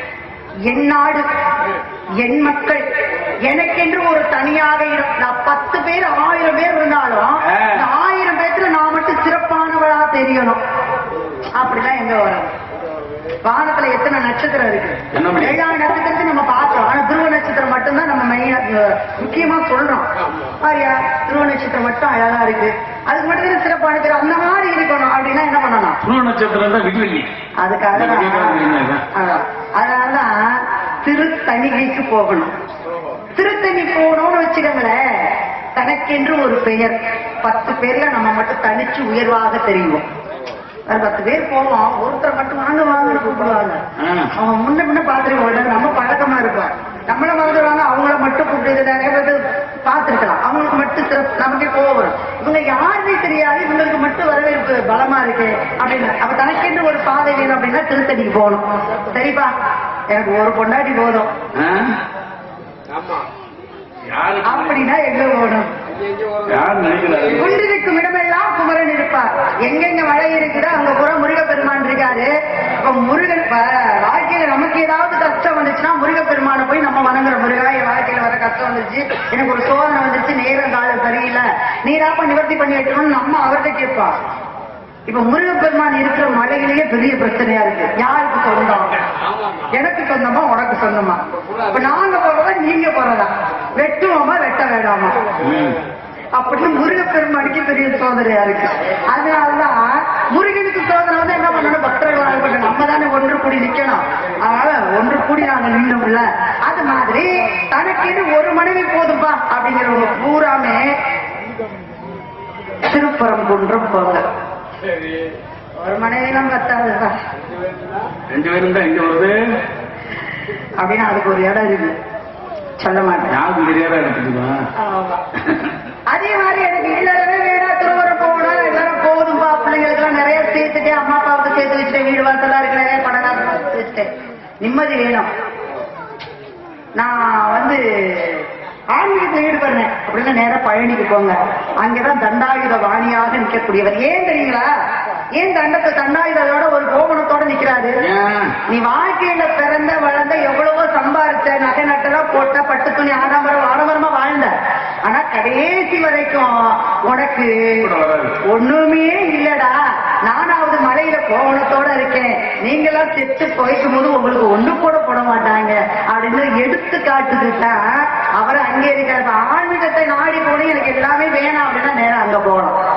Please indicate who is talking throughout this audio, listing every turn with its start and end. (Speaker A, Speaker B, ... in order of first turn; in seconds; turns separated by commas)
Speaker A: 0.7-1.3, Speaker A: 2.2-2.8, Speaker A: 3.5-10.6, Speaker B: 7.5-7.9, Speaker A: 11.6-12.5, Speaker A: 13.4-20.1, Speaker B: 15.1-15.6, Speaker A: 20.6-26.0, Speaker B: 26.0-27.3, Speaker A: 27.6-28.6, Speaker B: 27.9-29.1, Speaker A: 29.1-32.5, Speaker A: 33.4-40.0, Speaker A: 40.9-43.8, Speaker B: 44.0-44.3, Speaker A: 44.3-59.5, Speaker A: 60.1-61.3, Speaker B: 61.5-62.0, Speaker B: 64.1-64.8, Speaker A: 64.4-65.7, Speaker B: 66.4-67.5, Speaker A: 67.3-84.2, Speaker A: 85.1-89.0, Speaker A: 89.7-95.2, Speaker B: 95.4-95.8, Speaker A: 96.3-110.9, Speaker A: 112.9-114.2, Speaker A: 115.8-117.1, Speaker B: 118.3-119.5, Speaker A: 120.8-122.0, Speaker A: 122.8-123.4, Speaker B: 123.3-124.7, Speaker A: 124.8-125.2, Speaker A: 126.1-134.1, Speaker A: 134.6-135.3, Speaker A: 137.0-144.7, Speaker A: 145.4-148.0, Speaker B: 148.1-148.6, Speaker A: 148.6-154.5, Speaker A: 155.1-157.9, Speaker B: 157.8-158.4, Speaker A: 158.4-172.8